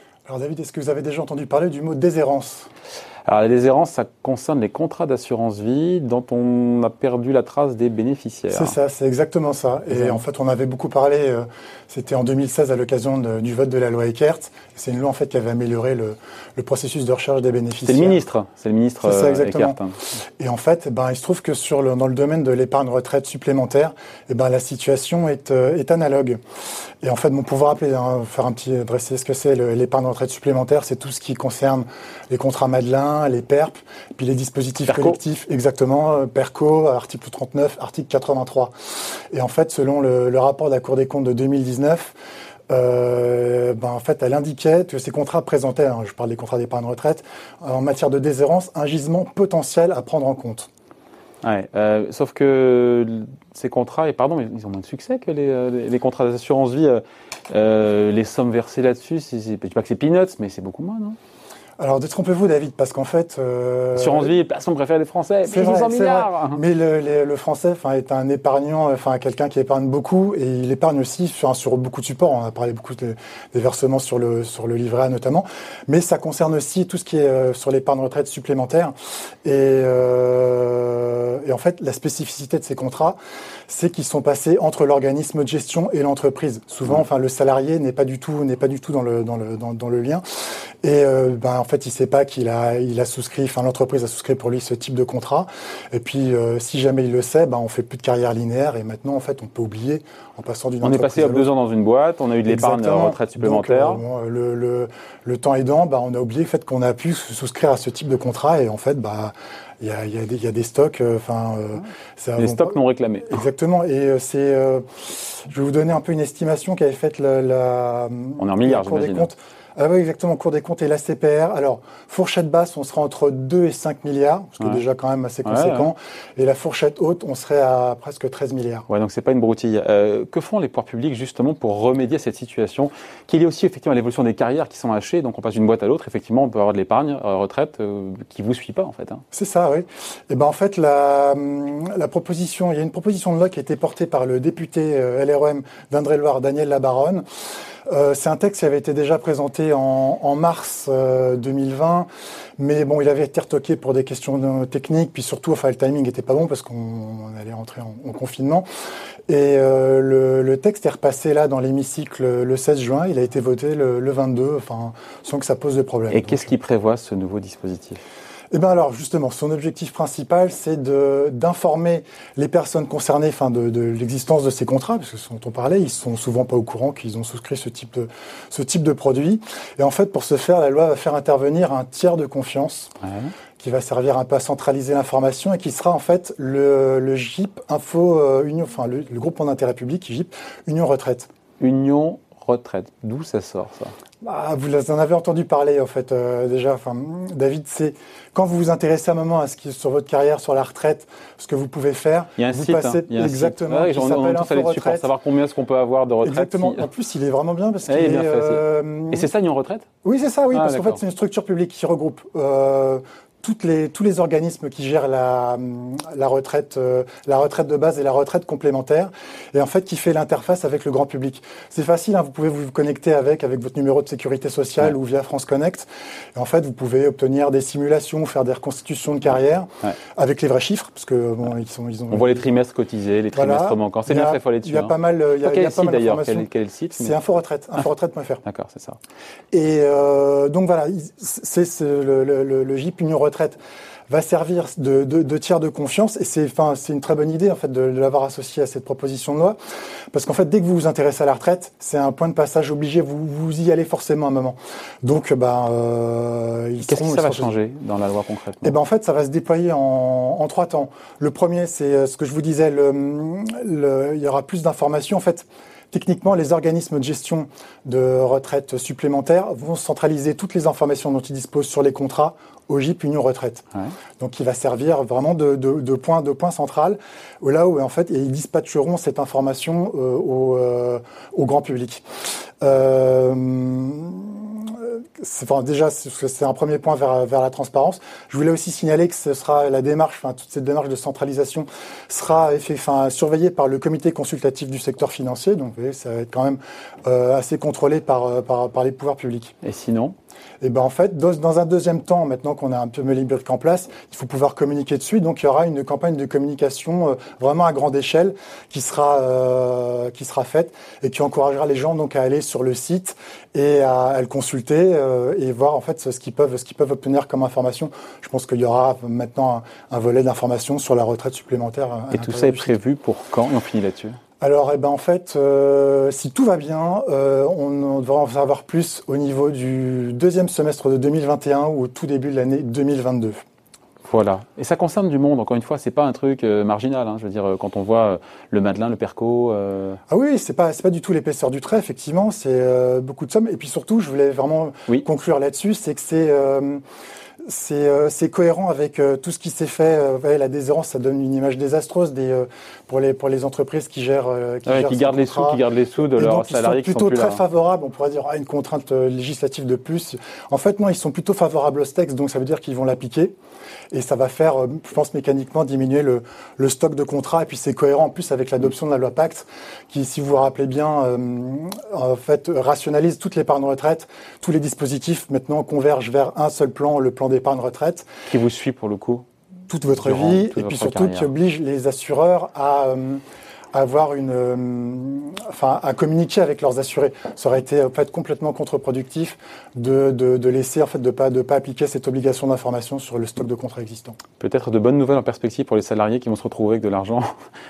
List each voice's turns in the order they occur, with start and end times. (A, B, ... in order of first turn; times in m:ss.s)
0:00.3-0:02.7 A
0:03.3-0:08.8 B
0:08.5-0:18.2 A
0:09.9-0:10.2 B
0:17.8-0:20.0 B
0:19.0-0:19.8 A
0:20.4-0:26.4 A
0:27.0-0:38.7 A
0:34.9-0:35.2 B
0:39.3-0:42.1 A
0:42.7-0:50.7 A
0:51.4-1:01.2 B
1:01.8-1:04.4 A
1:04.0-1:06.6 B
1:05.4-1:30.2 A
1:30.8-1:41.5 A
1:40.8-1:44.0 B
1:42.4-2:08.9 A
1:52.4-1:53.4 B
1:58.4-1:59.3 B
2:05.4-2:05.9 B
2:08.9-2:19.2 B
2:19.3-2:27.2 A
2:27.9-2:38.6 A
2:39.3-2:46.5 A
2:46.1-2:48.0 B
2:48.5-3:02.9 A
3:03.0-3:03.3 B
3:03.6-3:11.3 A
3:11.6-3:13.9 B
3:14.2-3:25.1 A
3:22.4-3:26.9 B
3:26.2-3:29.3 A
3:27.9-3:29.9 B
3:30.0-3:52.4 A
3:30.5-3:31.0 B
3:52.1-3:57.2 B
3:53.3-3:58.4 A
3:58.4-3:59.0 B
3:59.5-4:03.6 A
4:04.1-4:09.6 A
4:10.1-4:17.5 A
4:16.8-4:18.8 B
4:18.6-4:33.7 A
4:34.2-4:42.0 A
4:42.6-4:59.5 A
4:59.6-5:00.2 B
5:00.6-5:22.8 A
5:22.1-5:24.2 B
5:24.4-5:33.4 A
5:34.1-5:40.0 B
5:40.1-5:46.8 A
5:47.4-6:03.3 A
5:54.7-5:57.4 B
6:03.9-6:18.1 A
6:18.3-6:19.2 B
6:19.7-6:34.2 A
6:20.0-6:21.3 B
6:34.4-6:37.3 B